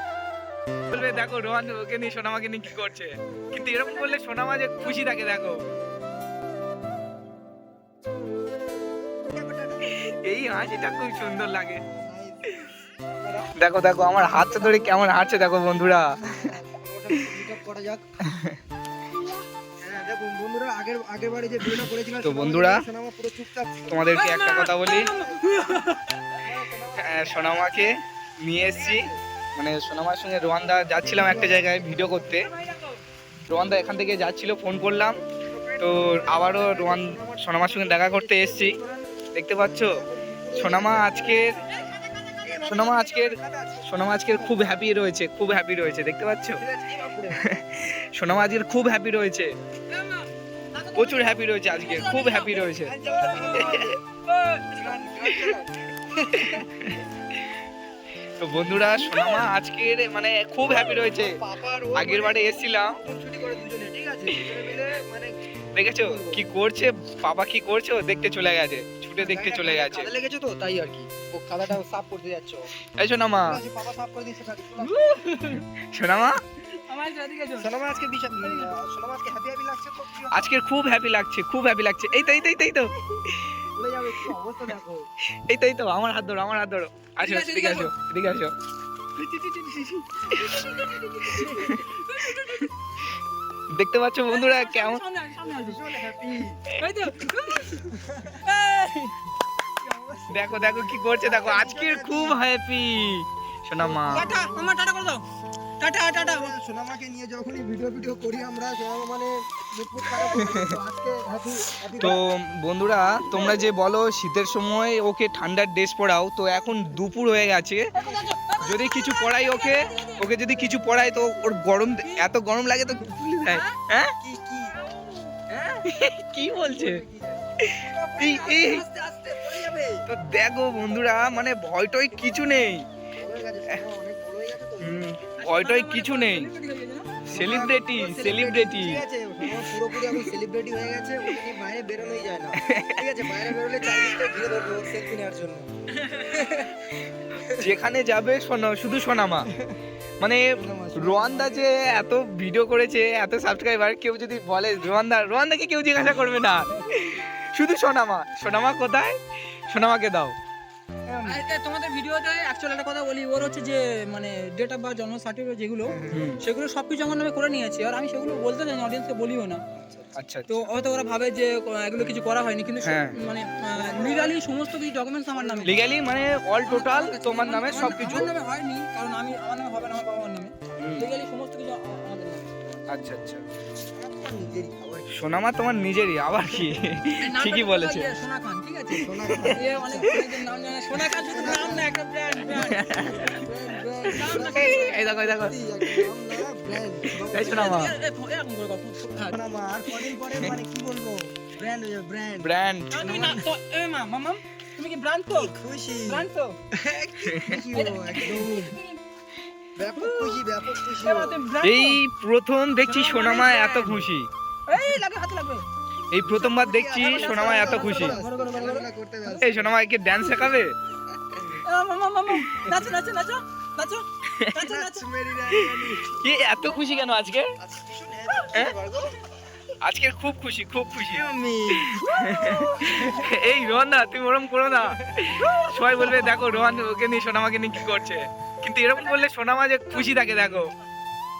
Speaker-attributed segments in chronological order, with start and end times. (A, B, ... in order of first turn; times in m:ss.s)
0:00.9-0:05.6 A
0:09.2-0:10.1 B
0:10.0-0:11.8 A
0:11.7-0:12.6 B
0:13.2-0:13.5 B
0:13.6-0:16.5 A
0:14.2-0:15.0 B
0:16.2-0:18.1 B
0:18.3-0:18.6 A
0:19.8-0:24.1 B
0:22.2-0:22.8 A
0:23.9-0:25.1 A
0:24.1-0:26.2 C
0:25.2-0:25.5 B
0:26.4-0:27.9 B
0:27.0-0:32.5 A
0:28.6-0:29.2 B
0:31.0-0:32.5 B
0:32.6-0:33.0 C
0:33.5-0:35.2 A
0:35.5-0:41.5 B
0:35.8-0:38.8 A
0:39.4-0:40.0 A
0:40.6-0:41.6 A
0:41.7-0:42.4 C
0:42.4-0:44.8 B
0:42.7-0:46.6 A
0:46.6-0:47.4 B
0:47.3-0:49.5 A
0:49.9-0:55.0 C
0:51.0-0:52.9 A
0:52.8-0:54.0 B
0:53.5-0:54.0 A
0:54.7-0:56.6 B
0:56.4-0:57.5 A
0:58.4-1:01.3 A
0:59.0-0:59.5 C
1:00.7-1:06.4 B
1:01.9-1:03.0 A
1:05.8-1:10.1 A
1:09.2-1:12.7 B
1:13.0-1:13.6 A
1:13.4-1:15.1 B
1:14.8-1:15.6 C
1:15.8-1:16.4 A
1:16.8-1:17.7 C
1:17.6-1:20.5 B
1:18.4-1:18.7 C
1:20.3-1:23.5 A
1:23.8-1:25.1 B
1:25.5-1:28.5 A
1:27.2-1:27.9 C
1:29.2-1:32.7 C
1:31.4-1:31.8 A
1:33.8-1:35.0 A
1:34.3-1:35.9 C
1:35.6-1:36.7 B
1:36.8-1:37.9 C
1:37.9-1:38.4 B
1:38.4-1:39.2 C
1:39.8-1:42.4 B
1:40.3-1:44.3 A
1:43.8-1:44.7 B
1:44.1-1:45.2 C
1:45.8-1:46.5 C
1:46.1-1:52.2 B
1:50.4-1:50.6 A
1:52.0-1:57.9 A
1:58.0-2:00.3 C
1:58.0-1:58.3 B
1:58.6-2:04.2 A
2:00.4-2:01.7 B
2:02.0-2:02.3 C
2:03.5-2:03.8 C
2:04.2-2:04.8 B
2:05.5-2:07.0 A
2:06.5-2:10.1 B
2:07.6-2:08.8 A
2:10.1-2:12.8 A
2:13.2-2:15.1 B
2:14.8-2:16.5 A
2:15.4-2:17.1 C
2:17.3-2:25.7 B
2:17.3-2:19.0 A
2:22.6-2:23.0 A
2:26.0-2:26.6 C
2:26.3-2:26.7 B
2:27.6-2:29.5 A
2:29.5-2:29.8 B
2:30.2-2:39.2 A
2:30.6-2:31.7 B
2:39.7-2:40.4 A
2:41.1-2:41.4 B
2:41.3-2:49.6 C
2:45.9-2:46.3 B
2:46.1-2:46.4 A
2:49.8-2:50.1 B
2:50.2-2:50.7 A
2:50.5-2:55.8 C
2:52.8-2:53.2 A
2:53.7-2:54.4 B
2:55.3-2:55.9 B
2:55.6-2:58.3 A
2:56.6-3:02.8 C
3:00.8-3:01.1 A
3:02.9-3:03.5 A
3:03.9-3:05.2 B
3:05.1-3:08.1 A
3:07.2-3:13.2 C
3:08.9-3:10.2 B
3:10.9-3:12.0 B
3:12.5-3:13.4 A
3:12.6-3:17.8 B
3:14.1-3:15.0 C
3:14.2-3:16.1 A
3:17.2-3:18.0 A
3:17.3-3:19.4 C
3:19.3-3:22.6 B
3:22.4-3:23.4 A
3:22.9-3:25.5 C
3:23.1-3:23.4 B
3:25.3-3:28.8 B
3:26.0-3:26.6 C
3:27.3-3:27.6 A
3:27.7-3:29.0 C
3:29.8-3:31.4 B
3:29.8-3:30.4 C
3:31.0-3:32.0 C
3:31.6-3:34.3 A
3:32.8-3:34.0 C
3:34.7-3:35.6 C
3:36.1-3:38.2 A
3:36.2-3:39.7 B
3:37.0-3:39.4 C
3:39.4-3:40.8 A
3:40.2-3:40.5 C
3:41.2-3:41.6 B
3:41.6-3:45.1 C
3:44.6-3:46.2 B
3:45.5-3:47.5 A
3:47.6-3:49.1 B
3:49.8-4:00.7 A
3:51.1-3:52.0 B
3:55.4-3:56.1 C
3:59.0-3:59.2 C